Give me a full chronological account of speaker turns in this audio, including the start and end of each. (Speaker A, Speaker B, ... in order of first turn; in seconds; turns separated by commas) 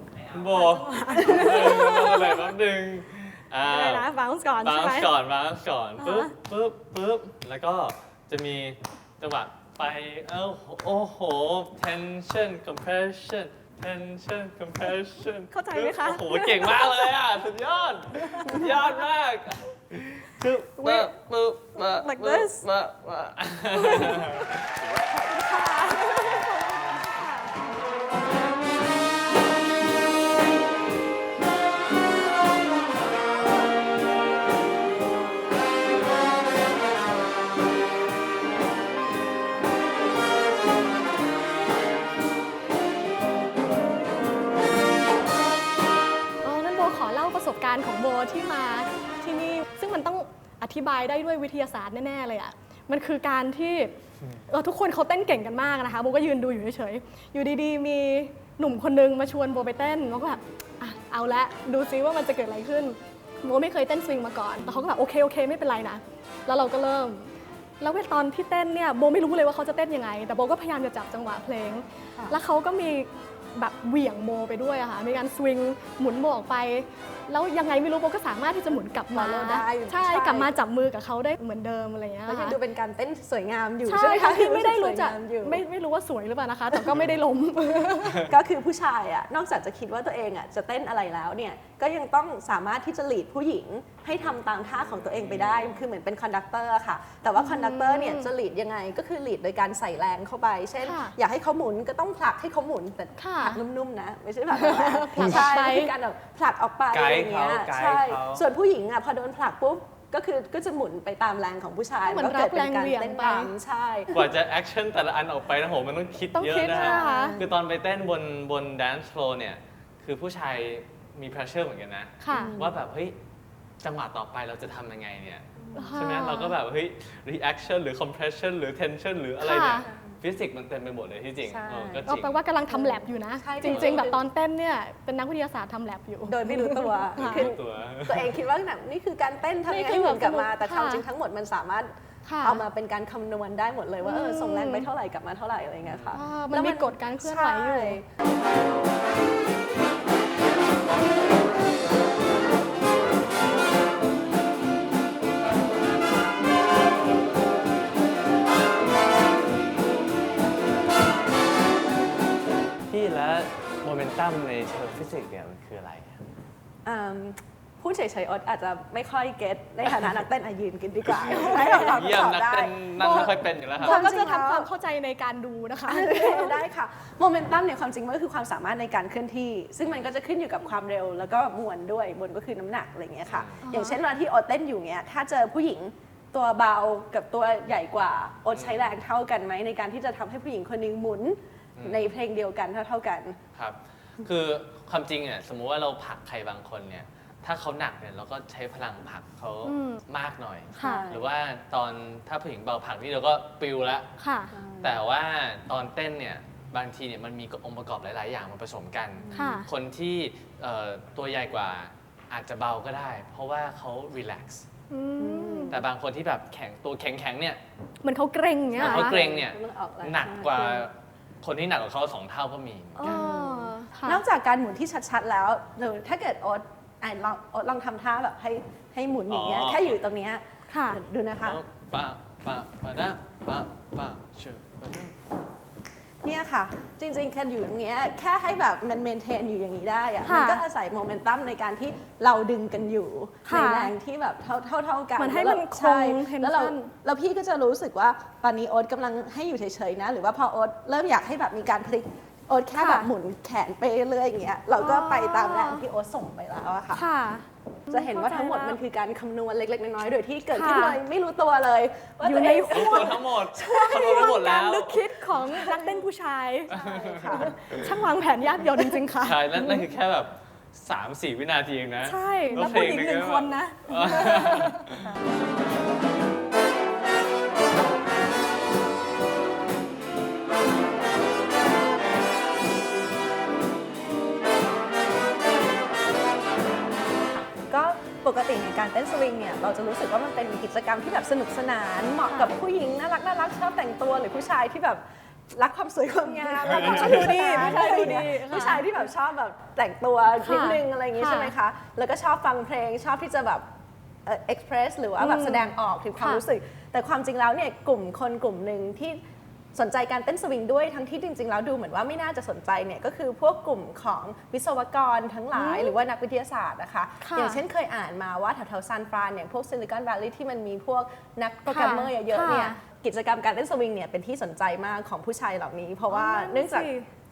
Speaker A: 0.3-4.1, Speaker B: 0.3-2.5, Speaker C: 1.2-1.7, Speaker B: 3.7-5.1, Speaker A: 4.6-25.0, Speaker B: 6.0-6.3, Speaker B: 15.5-17.0, Speaker B: 18.2-18.7, Speaker B: 20.8-21.1, Speaker B: 21.8-22.6, Speaker B: 23.8-24.5, Speaker B: 25.1-27.5, Speaker A: 26.1-26.4, Speaker B: 46.4-54.0, Speaker B: 54.5-82.6, Speaker C: 78.7-80.6, Speaker C: 82.3-85.6, Speaker B: 83.8-88.3, Speaker C: 88.3-114.2, Speaker A: 94.8-95.8, Speaker B: 97.4-98.3, Speaker B: 100.8-101.2, Speaker B: 103.2-103.6, Speaker B: 104.5-105.9, Speaker A: 106.9-108.4, Speaker B: 112.0-113.5, Speaker A: 114.1-123.2, Speaker B: 116.3-117.4, Speaker C: 116.7-117.5, Speaker B: 122.2-122.6, Speaker C: 122.3-122.8, Speaker A: 123.8-132.4, Speaker B: 125.8-126.5, Speaker B: 129.4-129.9, Speaker C: 131.5-132.1, Speaker B: 132.1-137.5, Speaker C: 132.7-134.2, Speaker A: 133.6-134.0, Speaker C: 136.3-148.1, Speaker A: 137.2-138.4, Speaker B: 139.7-141.1, Speaker B: 142.3-142.6, Speaker B: 144.0-144.9, Speaker A: 145.8-146.2, Speaker B: 146.1-148.0, Speaker A: 162.9-166.2, Speaker C: 166.8-174.7, Speaker A: 171.1-174.0, Speaker B: 171.3-172.0, Speaker B: 173.0-176.6, Speaker C: 175.9-193.4, Speaker A: 183.3-183.6, Speaker B: 183.7-184.0, Speaker A: 188.6-188.8, Speaker A: 191.8-192.2, Speaker A: 193.6-204.1, Speaker B: 199.7-200.0, Speaker B: 200.8-201.1, Speaker C: 200.8-201.3, Speaker B: 204.2-204.5, Speaker C: 204.5-205.0, Speaker A: 204.8-214.7, Speaker C: 209.2-209.6, Speaker B: 209.4-209.7, Speaker B: 214.9-215.7, Speaker C: 215.2-215.8, Speaker A: 215.7-217.6, Speaker B: 218.0-219.1, Speaker A: 218.8-223.2, Speaker C: 218.8-220.9, Speaker B: 223.0-224.2, Speaker C: 223.0-231.6, Speaker A: 229.3-230.0, Speaker B: 230.7-231.0, Speaker A: 231.4-235.2, Speaker C: 236.2-257.1, Speaker B: 240.2-240.6, Speaker B: 243.5-243.9, Speaker B: 245.2-246.9, Speaker B: 252.8-253.1, Speaker B: 254.8-255.8, Speaker B: 256.9-258.8, Speaker C: 257.9-263.2, Speaker B: 260.5-261.0, Speaker B: 262.2-269.8, Speaker A: 262.7-265.1, Speaker C: 266.7-267.6, Speaker A: 266.7-267.8, Speaker A: 269.2-275.0, Speaker B: 272.1-274.9, Speaker C: 287.7-303.7, Speaker B: 292.3-292.5, Speaker B: 296.4-299.0, Speaker A: 296.7-297.9, Speaker B: 300.4-301.5, Speaker C: 304.2-309.2, Speaker B: 305.2-306.4, Speaker C: 309.7-326.9, Speaker B: 315.5-315.9, Speaker B: 317.2-317.6, Speaker B: 321.7-322.8, Speaker B: 326.1-327.1